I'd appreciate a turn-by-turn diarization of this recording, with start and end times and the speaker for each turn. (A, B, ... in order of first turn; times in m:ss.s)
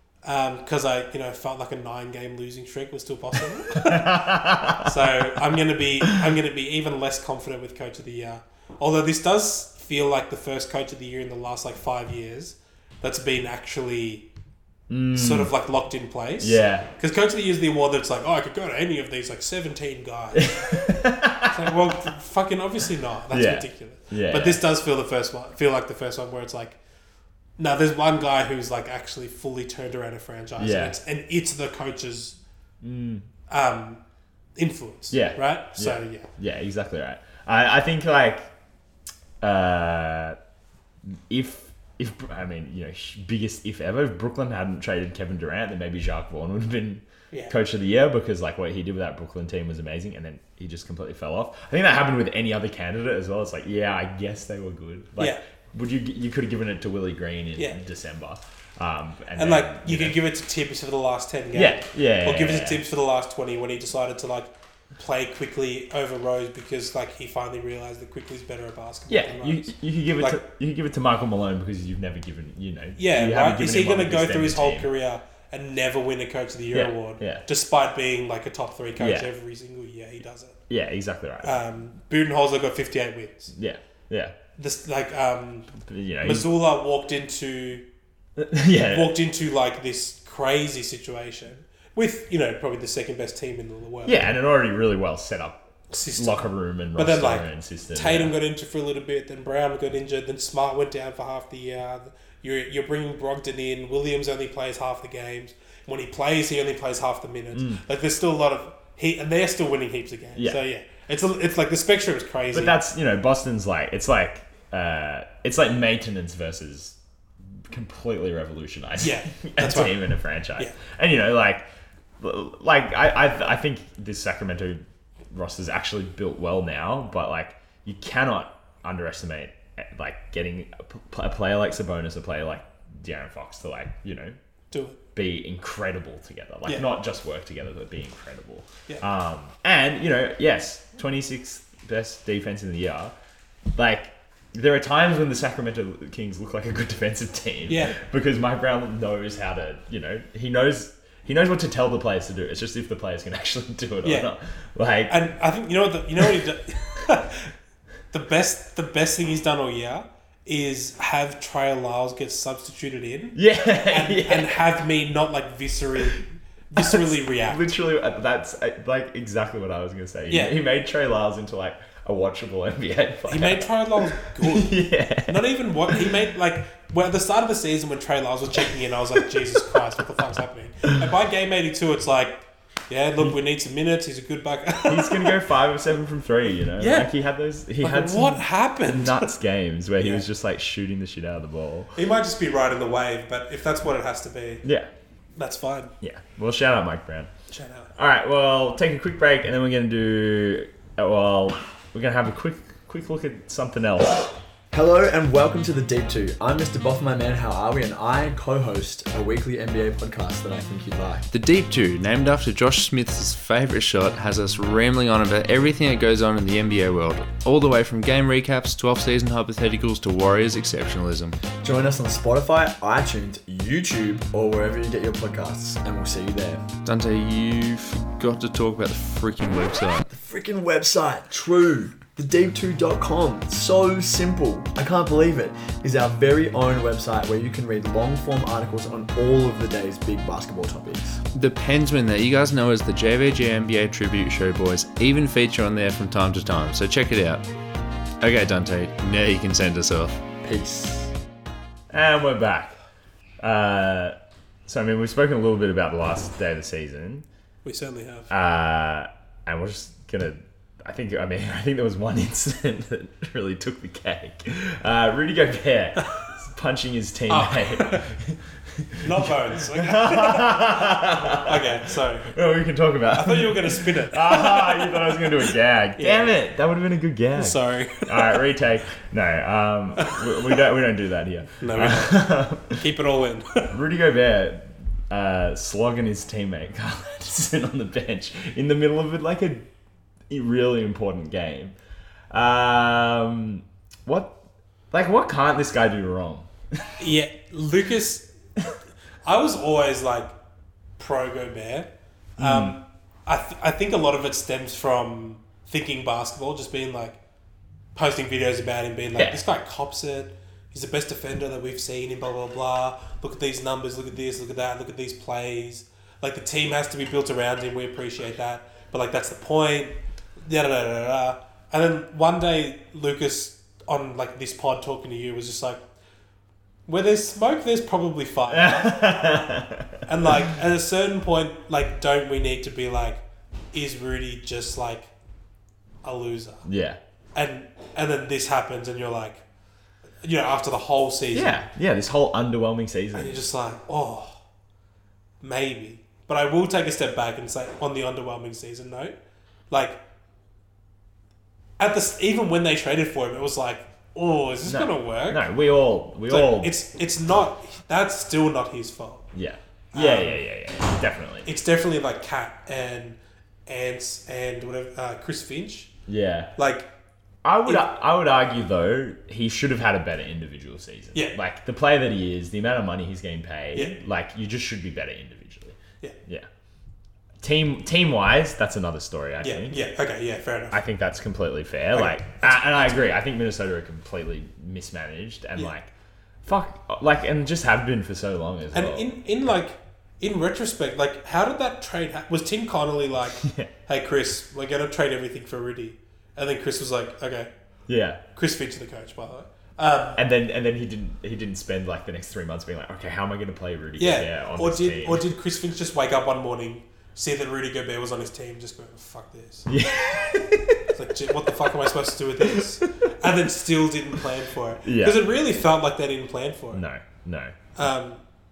0:00.2-0:14.2 A
0:03.8-0:04.9 B
0:14.9-0:15.5 B
0:15.1-0:20.6 A
0:16.4-0:16.9 B
0:20.3-0:22.1 B
0:21.5-0:26.8 A
0:23.3-0:24.6 B
0:27.6-0:32.4 A
0:30.6-0:31.0 B
0:32.8-0:33.3 B
0:33.5-0:34.0 A
0:34.6-0:36.3 A
0:35.1-0:38.5 B
0:39.4-0:40.4 B
0:41.1-1:00.2 B
0:59.4-1:10.4 A
1:01.5-1:02.8 B
1:09.1-1:14.9 B
1:13.0-1:20.6 A
1:16.7-1:17.4 B
1:19.0-1:19.3 B
1:20.7-1:21.6 B
1:21.4-1:23.5 A
1:23.5-1:24.4 B
1:24.6-1:27.8 A
1:25.7-1:26.5 B
1:28.4-1:29.2 B
1:28.9-1:34.2 A
1:34.0-1:38.3 B
1:35.9-1:52.8 A
1:47.5-1:47.8 B
1:50.3-1:50.6 B
1:52.5-1:57.0 B
1:57.7-2:01.6 B
1:59.0-2:00.8 A
2:02.2-2:14.4 B
2:14.7-2:15.0 A
2:15.1-2:23.1 B
2:23.7-2:35.2 B
2:27.7-2:28.0 A
2:34.0-2:34.3 A
2:35.1-2:37.5 A
2:38.1-2:47.6 A
2:43.3-2:44.6 B
2:46.8-2:56.1 B
2:50.3-2:50.6 A
2:53.3-3:05.4 A
3:04.8-3:11.9 B
3:06.8-3:07.1 A
3:07.8-3:09.3 A
3:10.0-3:10.3 A
3:11.9-3:14.6 A
3:14.6-3:14.9 B
3:15.4-3:15.9 A
3:16.0-3:17.3 B
3:17.5-3:17.9 A
3:18.0-3:24.4 B
3:24.7-3:31.2 C
3:31.3-3:41.4 D
3:41.6-3:46.6 C
3:46.8-3:50.0 D
3:50.0-4:01.2 C
4:01.3-4:07.4 D
4:08.2-4:10.2 D
4:10.4-4:11.1 C
4:11.9-4:12.8 B
4:13.4-4:14.2 B
4:14.7-4:17.2 B
4:17.6-4:18.3 A
4:18.3-4:42.8 B
4:27.3-4:28.0 A
4:29.0-4:32.3 A
4:33.1-4:36.4 A
4:37.3-4:38.4 A
4:41.6-4:43.7 A
4:43.7-4:49.7 B
4:50.3-4:51.8 B
4:52.3-4:54.4 B
4:54.9-4:56.8 B
4:57.0-4:58.3 A
4:59.2-5:00.3 A
5:01.0-5:07.2 A
5:02.4-5:02.8 B
5:07.9-5:25.8 A
5:09.2-5:09.4 B
5:26.9-5:29.2 A
5:28.5-5:30.3 B
5:30.0-5:35.1 A
5:36.0-5:36.6 A
5:36.6-5:37.0 B
5:37.3-5:39.4 A
5:40.2-5:41.6 A
5:41.3-5:43.4 B
5:43.1-5:44.4 A
5:45.4-5:49.2 A
5:49.7-5:50.0 A
5:51.8-5:55.4 A
5:54.6-5:56.8 B
5:56.3-5:59.2 A
5:59.3-6:01.5 B
5:59.9-6:00.4 A
6:01.4-6:05.9 A
6:06.1-6:06.5 B
6:06.6-6:06.9 A
6:07.4-6:16.5 B
6:17.4-6:19.8 B
6:19.4-6:20.8 A
6:20.7-6:25.9 B
6:21.9-6:23.0 A
6:26.4-6:29.2 B
6:28.7-6:37.5 A
6:33.4-6:33.7 B
6:37.9-6:38.2 B
6:38.3-6:40.2 A
6:40.2-6:45.3 B
6:44.0-6:49.7 A
6:49.7-6:50.8 B
6:50.9-6:56.8 A
6:52.4-6:52.8 B
6:54.8-6:55.3 B
6:56.7-6:57.6 B
6:57.7-6:58.2 A